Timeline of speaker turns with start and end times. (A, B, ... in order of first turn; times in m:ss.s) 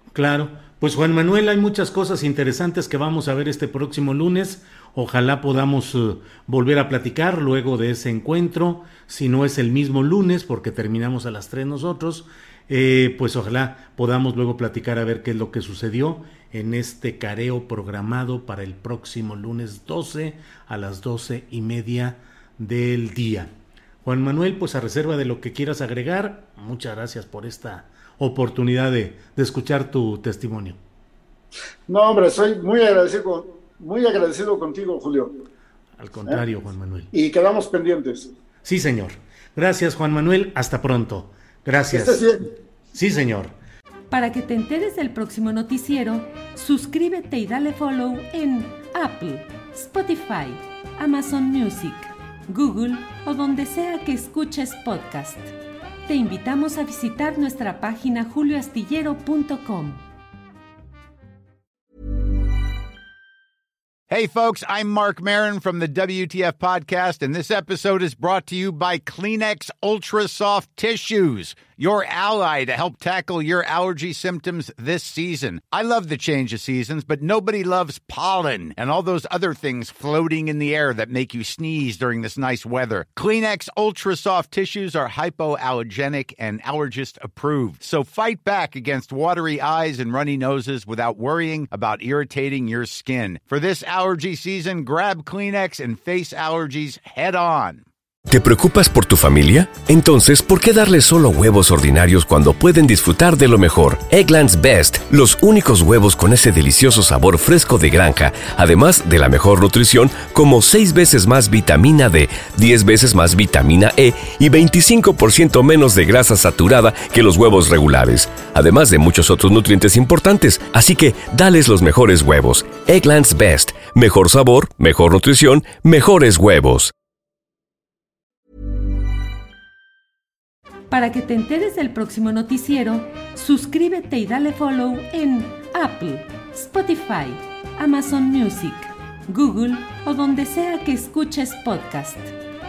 0:00.1-0:23.5 A
0:24.0-0:30.8 A
0:31.9-0:35.3 B
0:36.0-0:37.1 A
0:37.1-0:38.3 B
0:38.6-0:42.2 A
0:41.9-0:42.5 B
0:42.9-0:43.5 A
0:44.1-0:55.5 C
0:56.1-1:00.0 C
1:04.1-1:37.9 D
1:38.3-2:06.9 E
2:10.9-2:22.3 C